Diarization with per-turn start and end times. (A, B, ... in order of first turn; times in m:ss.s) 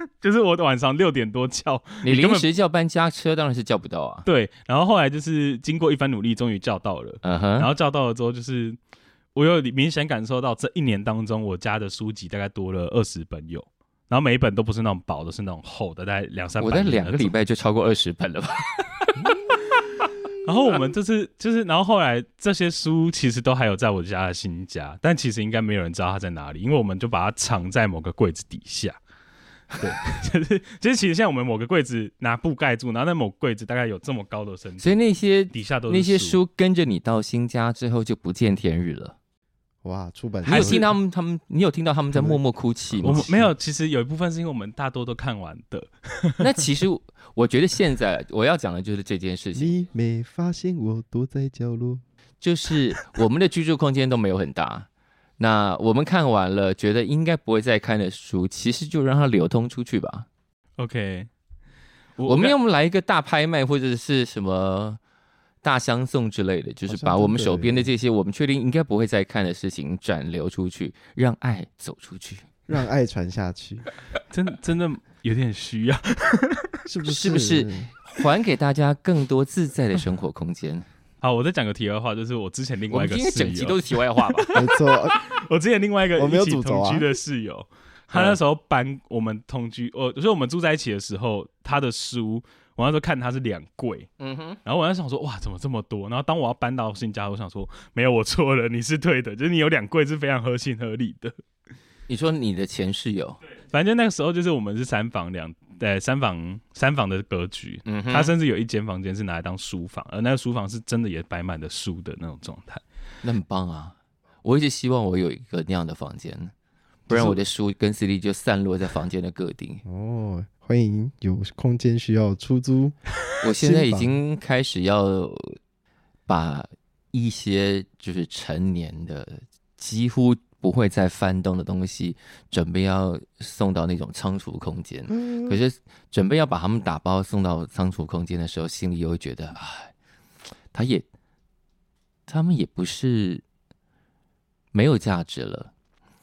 0:00.2-0:02.5 A
0:02.0-0:04.3 B
0:04.3-0:08.8 A
0:07.2-0:07.7 B
0:09.4-0:17.3 A
0:16.6-0:19.4 B
0:20.4-0:29.0 A
0:29.7-0:35.0 A
0:34.8-0:39.2 B
0:35.5-0:36.4 A
0:39.8-0:40.9 C
0:40.4-0:43.4 B
0:40.5-0:40.8 A
0:42.1-0:42.4 C
0:42.9-0:43.5 C
0:43.0-0:46.6 A
0:46.4-0:49.8 B
0:49.6-0:52.0 C
0:52.4-0:54.9 B
0:55.4-1:00.3 B
1:00.8-1:01.3 A
1:02.2-1:02.6 A
1:02.3-1:05.0 B
1:05.6-1:12.5 B
1:06.9-1:07.9 C
1:12.7-1:13.9 C
1:14.3-1:16.8 A
1:16.9-1:17.9 C
1:17.1-1:20.9 B
1:21.2-1:23.8 A
1:22.9-1:24.5 B
1:24.3-1:34.1 A
1:24.6-1:25.2 C
1:26.2-1:27.1 C
1:34.2-1:34.6 B
1:34.6-1:41.4 A
1:42.1-1:43.4 B
1:43.7-1:52.8 A
1:47.9-1:48.3 B
1:53.2-1:56.5 B
1:57.1-1:59.8 B
1:57.1-1:57.4 C
1:59.8-2:04.2 C
2:03.4-2:05.6 B
2:06.3-2:19.9 B
2:20.7-2:21.1 B
2:22.3-2:23.4 B
2:24.7-2:25.7 B